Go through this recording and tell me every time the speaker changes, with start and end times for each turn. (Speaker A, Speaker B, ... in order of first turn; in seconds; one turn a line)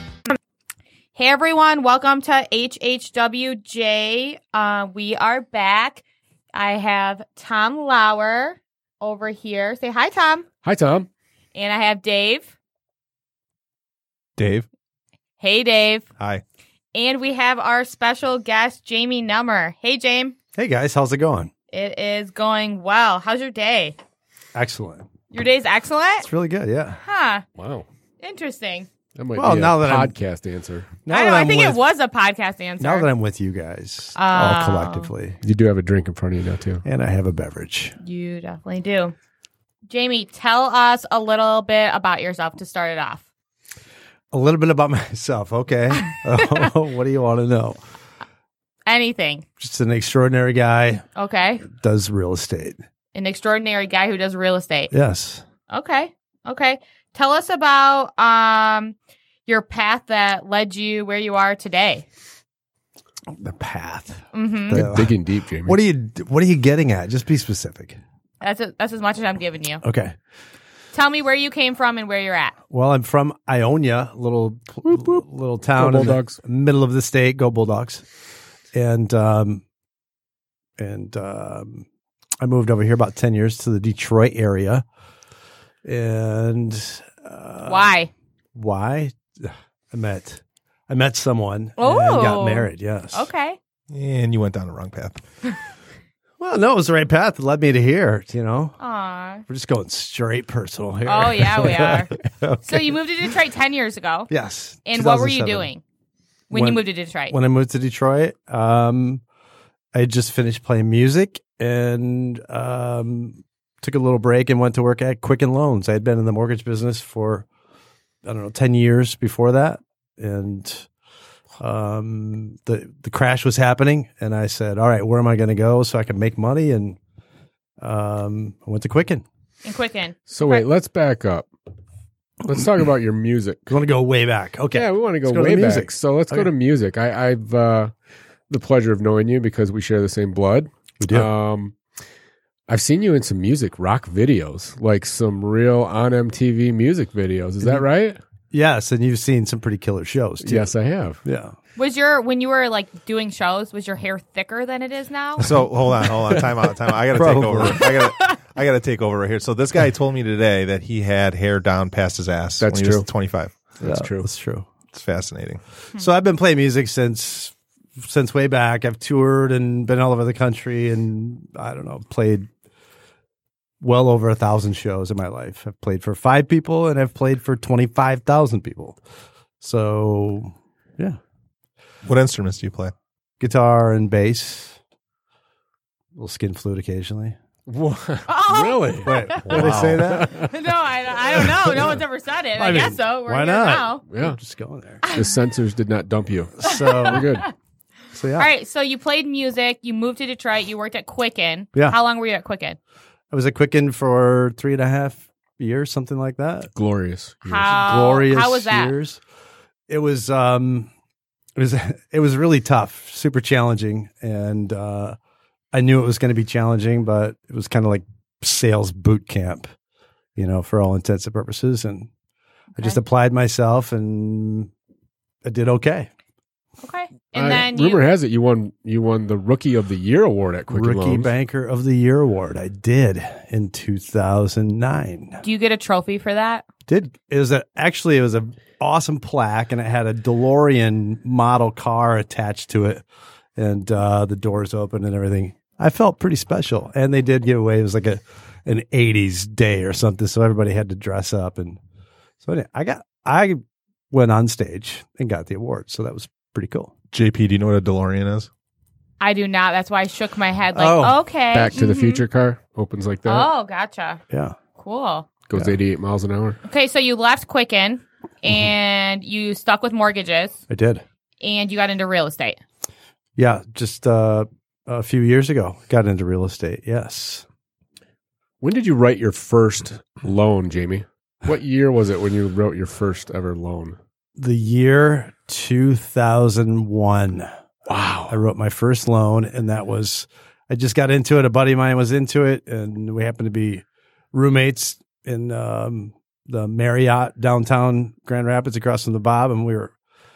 Speaker A: 1.1-10.5
Speaker B: 10.6-11.1
Speaker A: 11.5-12.5
Speaker C: 14.4-14.7
Speaker A: 15.4-16.1
Speaker A: 16.9-20.3
Speaker D: 20.6-21.5
Speaker A: 21.7-23.9
Speaker D: 24.6-25.1
Speaker A: 25.3-26.3
Speaker D: 26.2-27.0
Speaker A: 27.0-27.4
Speaker B: 27.6-27.9
Speaker A: 28.2-28.9
Speaker B: 29.2-30.9
Speaker D: 29.4-30.1
Speaker D: 31.1-31.8
Speaker A: 31.1-33.1
Speaker D: 32.8-35.4
Speaker A: 34.1-35.1
Speaker B: 35.4-36.8
Speaker D: 36.8-38.0
Speaker A: 38.0-39.1
Speaker A: 39.9-43.2
Speaker D: 44.3-47.8
Speaker A: 48.9-49.5
Speaker D: 49.6-51.0
Speaker A: 51.2-51.6
Speaker D: 51.7-52.8
Speaker A: 53.1-54.9
Speaker D: 54.9-55.4
Speaker A: 55.7-59.0
Speaker A: 59.5-62.0
Speaker D: 63.3-68.0
Speaker A: 64.3-64.8
Speaker B: 64.7-65.8
Speaker A: 68.4-69.8
Speaker D: 69.8-70.1
Speaker A: 70.9-72.5
Speaker D: 72.7-78.0
Speaker B: 74.9-75.2
Speaker B: 75.7-76.4
Speaker D: 78.7-79.6
Speaker D: 80.8-81.8
Speaker D: 82.4-84.8
Speaker D: 85.8-87.9
Speaker A: 87.6-88.1
Speaker D: 88.5-93.3
Speaker A: 91.8-93.6
Speaker C: 93.9-95.2
Speaker D: 96.4-98.8
Speaker A: 98.8-99.4
Speaker D: 99.5-103.0
Speaker A: 101.0-104.3
Speaker D: 104.3-105.7
Speaker A: 104.8-105.8
Speaker A: 106.5-107.3
Speaker D: 106.5-109.2
Speaker D: 109.9-117.5
Speaker D: 118.2-120.9
Speaker D: 121.6-127.0
Speaker D: 127.8-129.2
Speaker A: 129.6-130.7
Speaker B: 130.3-131.5
Speaker B: 132.4-133.7
Speaker D: 133.7-136.5
Speaker B: 134.7-137.9
Speaker B: 138.5-141.8
Speaker D: 141.0-141.3
Speaker B: 142.7-148.2
Speaker D: 148.5-150.7
Speaker B: 150.4-151.2
Speaker D: 151.2-151.5
Speaker A: 151.8-155.6
Speaker C: 155.4-163.5
Speaker D: 157.1-157.9
Speaker A: 157.9-158.4
Speaker B: 162.6-163.1
Speaker B: 163.8-164.3
Speaker D: 163.8-164.7
Speaker C: 164.9-165.6
Speaker D: 165.9-172.5
Speaker D: 173.8-179.0
Speaker D: 179.6-181.2
Speaker C: 182.0-182.9
Speaker D: 183.4-184.8
Speaker D: 186.1-187.3
Speaker B: 187.7-190.5
Speaker A: 188.3-194.0
Speaker D: 189.0-190.2
Speaker C: 189.7-190.2
Speaker D: 192.5-195.0
Speaker B: 194.1-194.4
Speaker A: 195.0-195.3
Speaker B: 195.1-197.4
Speaker D: 196.6-197.3
Speaker A: 196.6-197.5
Speaker D: 198.1-198.5
Speaker A: 198.3-202.8
Speaker D: 203.3-206.7
Speaker B: 206.8-207.8
Speaker A: 207.4-208.9
Speaker D: 207.7-209.2
Speaker D: 209.9-210.9
Speaker D: 211.6-215.2
Speaker D: 215.7-219.7
Speaker D: 220.3-222.1
Speaker D: 222.8-224.7
Speaker D: 225.4-226.1
Speaker A: 226.8-228.0
Speaker B: 227.3-231.3
Speaker D: 230.7-235.4
Speaker A: 235.4-236.6
Speaker D: 236.9-243.0
Speaker D: 243.6-251.8
Speaker D: 252.4-256.9
Speaker C: 257.1-258.5
Speaker A: 259.2-262.2
Speaker D: 260.7-261.2
Speaker B: 261.5-263.5
Speaker A: 263.2-264.2
Speaker D: 264.3-264.6
Speaker A: 264.8-265.3
Speaker B: 265.5-266.6
Speaker A: 266.6-270.6
Speaker D: 270.7-271.0
Speaker A: 271.4-272.6
Speaker D: 273.4-277.4
Speaker B: 278.6-284.0
Speaker D: 284.4-287.5
Speaker B: 287.9-288.4
Speaker D: 288.3-299.9